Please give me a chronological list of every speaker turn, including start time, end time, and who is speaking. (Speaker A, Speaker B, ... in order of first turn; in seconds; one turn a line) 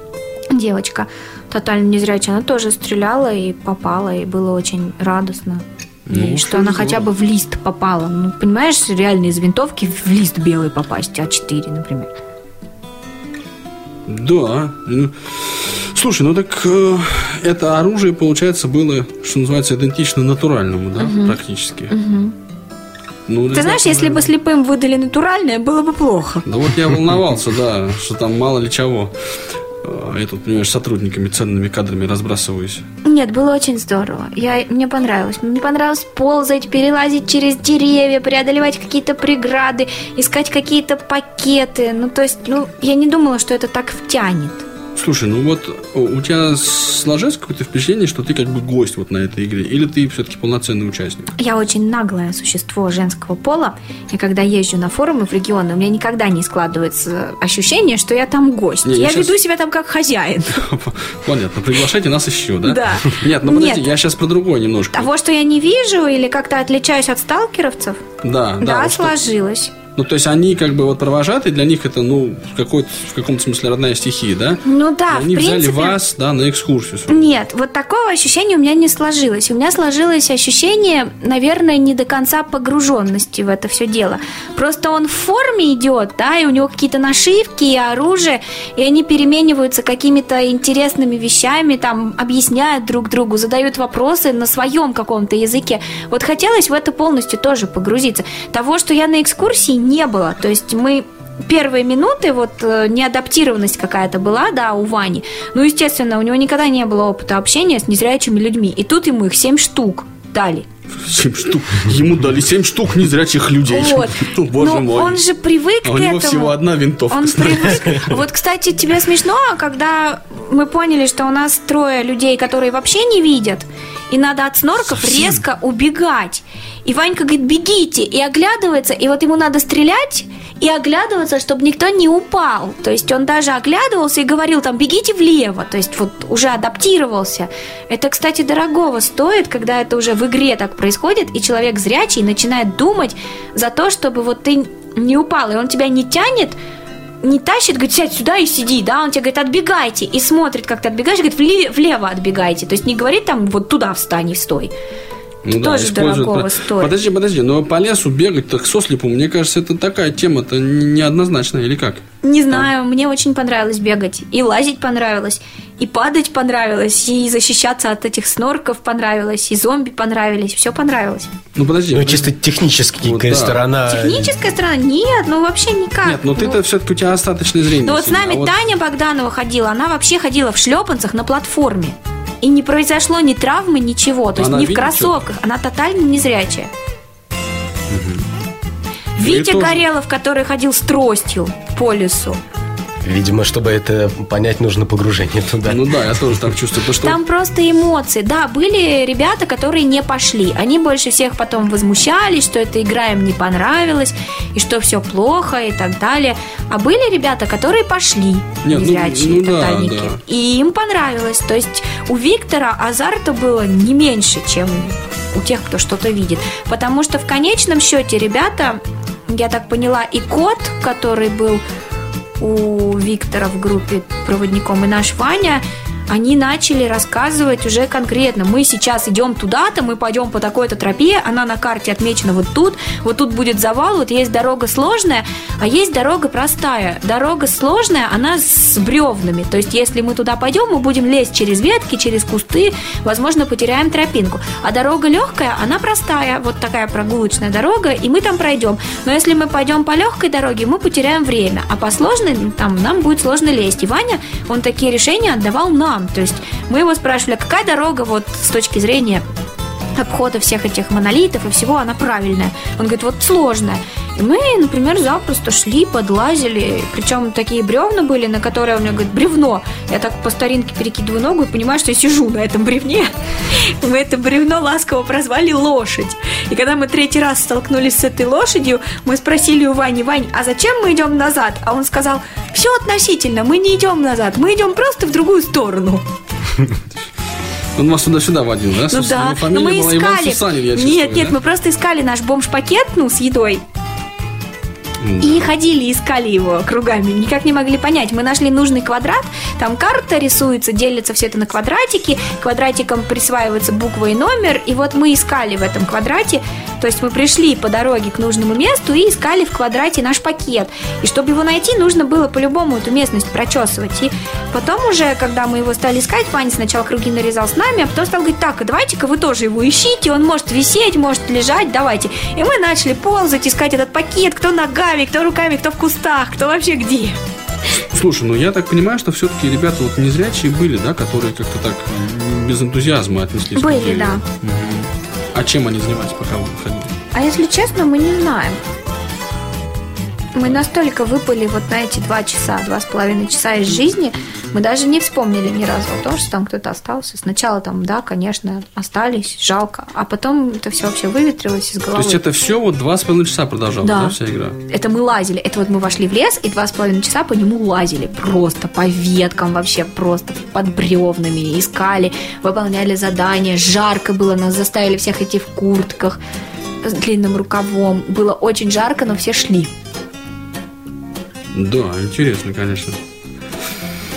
Speaker A: 0.5-12.1
Speaker B: 6.1-7.1
Speaker B: 14.1-21.9
Speaker A: 21.0-21.4
Speaker A: 21.9-22.4
Speaker B: 23.3-24.3
Speaker A: 23.5-26.5
Speaker B: 26.5-29.1
Speaker B: 29.8-32.9
Speaker A: 33.0-44.6
Speaker B: 45.0-51.3
Speaker A: 51.4-60.6
Speaker B: 58.9-59.3
Speaker B: 60.5-65.1
Speaker A: 62.6-63.9
Speaker A: 64.9-68.0
Speaker B: 68.2-69.2
Speaker A: 68.6-69.7
Speaker B: 70.0-77.2
Speaker A: 74.7-76.0
Speaker A: 77.1-110.7
Speaker B: 111.0-115.2
Speaker A: 113.7-116.6
Speaker B: 115.8-118.2
Speaker A: 117.1-146.6
Speaker B: 125.0-125.4
Speaker A: 147.2-154.7
Speaker B: 155.4-162.7
Speaker A: 155.5-156.9
Speaker A: 162.2-171.3
Speaker B: 171.6-172.4
Speaker C: 171.9-174.3
Speaker B: 173.0-173.6
Speaker A: 173.9-176.6
Speaker B: 176.1-178.6
Speaker A: 177.8-186.7
Speaker B: 184.4-185.2
Speaker B: 187.9-188.2
Speaker A: 189.2-192.4
Speaker B: 189.2-189.8
Speaker C: 193.0-196.0
Speaker B: 195.7-197.2
Speaker A: 197.0-221.6
Speaker B: 208.7-210.2
Speaker A: 222.4-259.2
Speaker A: 259.9-286.0
Speaker B: 287.8-291.4
Speaker A: 288.9-293.6
Speaker B: 295.0-295.5
Speaker A: 295.2-327.2
Speaker B: 327.9-336.9
Speaker A: 333.6-334.2
Speaker A: 337.1-338.6
Speaker A: 340.4-352.2
Speaker B: 351.9-354.6
Speaker A: 353.8-354.2
Speaker A: 354.7-366.2
Speaker A: 366.8-369.7
Speaker B: 371.5-373.0